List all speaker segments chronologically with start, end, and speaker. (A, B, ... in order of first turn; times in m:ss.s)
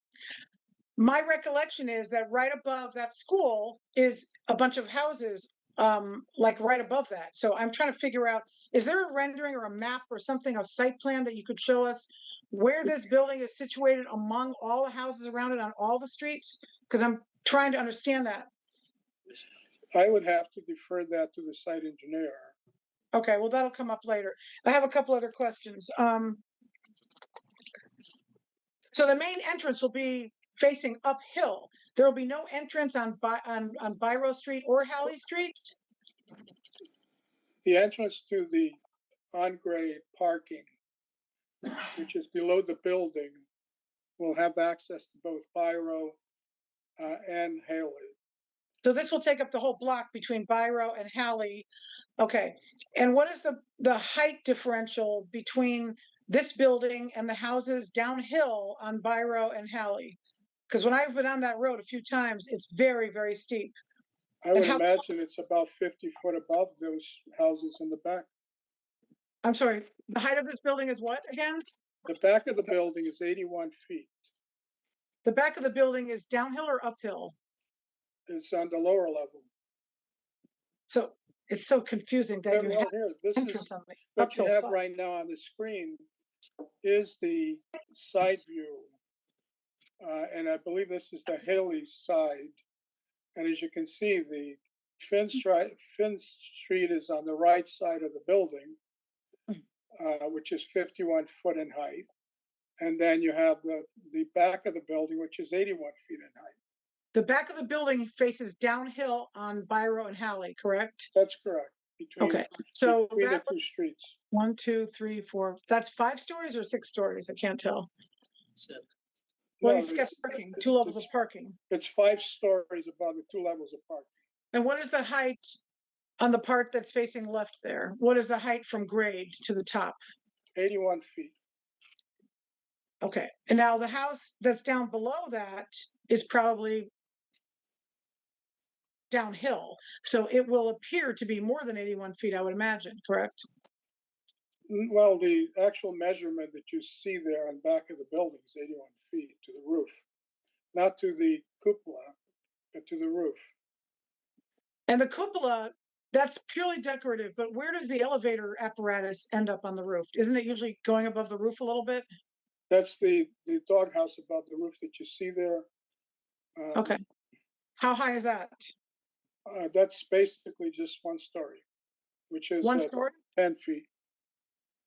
0:01.0-0:18.5 A
0:19.9-0:22.6 B
0:23.1-0:26.4 A
0:28.9-0:35.7 A
0:37.6-0:38.8 B
0:39.3-0:40.7 B
0:41.9-0:43.4 B
0:44.2-0:46.2 B
0:47.0-0:48.2 B
0:48.8-0:51.7 A
0:52.2-1:00.2 A
1:00.7-1:03.8 A
1:04.4-1:08.3 B
1:04.6-1:05.0 A
1:09.4-1:11.6 A
1:12.1-1:14.1 B
1:15.2-1:17.4 A
1:18.3-1:19.5 B
1:20.9-1:24.8 A
1:22.5-1:26.0 B
1:26.8-1:28.9 B
1:30.0-1:32.6 B
1:33.4-1:38.8 B
1:40.0-1:42.1 B
1:42.8-1:46.6 B
1:47.1-1:51.1 A
1:51.1-1:54.2 B
1:52.2-1:53.5 A
1:54.3-1:57.9 A
1:59.6-2:01.1 B
1:59.6-2:01.6 A
2:01.7-2:04.1 B
2:04.5-2:05.6 A
2:06.2-2:10.0 A
2:10.6-2:11.4 B
2:13.0-2:16.9 A
2:19.1-2:23.5 A
2:24.7-2:29.9 B
2:30.7-2:32.2 B
2:32.7-2:33.4 B
2:34.9-2:42.1 A
2:42.7-2:45.7 B
2:46.6-2:47.0 B
2:47.8-2:48.7 A
2:49.5-2:51.6 B
2:52.3-2:53.9 B
2:52.6-2:53.2 A